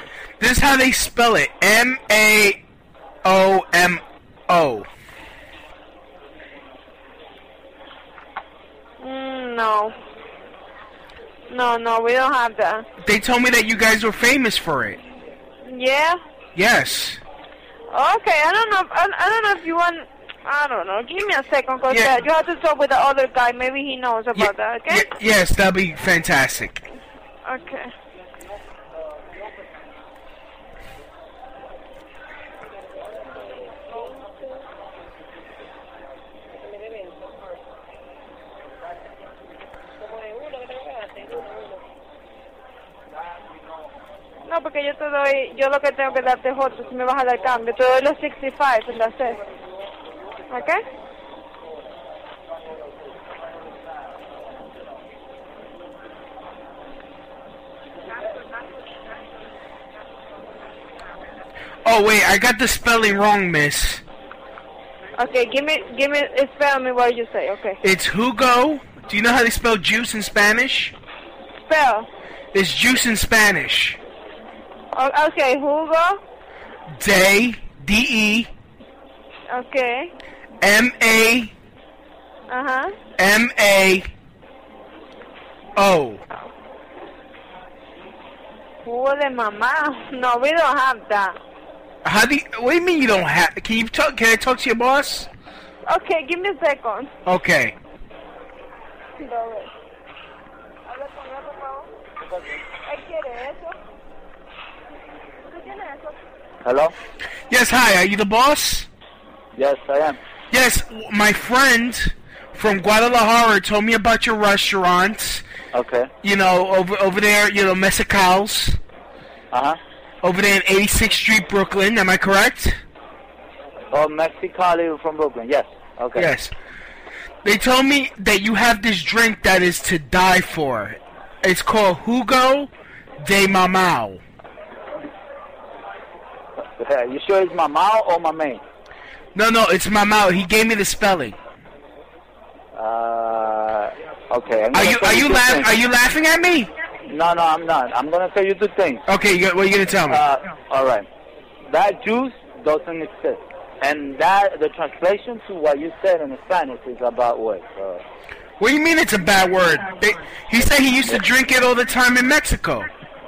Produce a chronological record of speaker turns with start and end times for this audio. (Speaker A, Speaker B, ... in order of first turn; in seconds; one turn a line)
Speaker A: 0.4-2.6
Speaker A: 3.2-4.9
Speaker B: 9.0-9.9
Speaker B: 11.5-12.8
Speaker A: 13.0-15.0
Speaker B: 15.7-16.2
Speaker A: 16.5-17.2
Speaker B: 17.9-25.1
Speaker A: 21.9-22.2
Speaker A: 24.3-26.9
Speaker B: 27.4-27.9
Speaker B: 44.5-49.4
Speaker B: 50.5-50.8
Speaker A: 61.8-64.0
Speaker B: 65.2-67.8
Speaker A: 67.8-70.9
Speaker B: 71.7-72.1
Speaker A: 72.5-74.0
Speaker B: 74.9-76.2
Speaker A: 77.0-78.5
Speaker B: 79.5-80.1
Speaker A: 80.6-81.5
Speaker B: 82.5-82.9
Speaker A: 83.2-84.0
Speaker A: 85.8-86.2
Speaker B: 88.8-91.4
Speaker A: 92.0-95.3
Speaker B: 95.9-97.1
Speaker A: 97.2-97.8
Speaker B: 99.2-99.7
Speaker B: 100.9-101.9
Speaker C: 102.3-102.6
Speaker B: 102.7-103.8
Speaker B: 105.6-106.1
Speaker C: 106.6-106.9
Speaker A: 107.5-108.9
Speaker C: 109.5-110.2
Speaker A: 110.5-115.4
Speaker C: 115.7-116.1
Speaker A: 116.2-118.8
Speaker C: 119.5-119.8
Speaker A: 120.2-122.8
Speaker C: 123.9-126.3
Speaker A: 126.2-126.5
Speaker A: 127.4-134.2
Speaker C: 136.8-138.6
Speaker A: 139.3-141.4
Speaker C: 142.7-145.7
Speaker A: 144.7-146.7
Speaker C: 147.1-149.0
Speaker A: 149.1-150.2
Speaker C: 150.1-151.1
Speaker C: 151.7-158.0
Speaker A: 158.6-162.9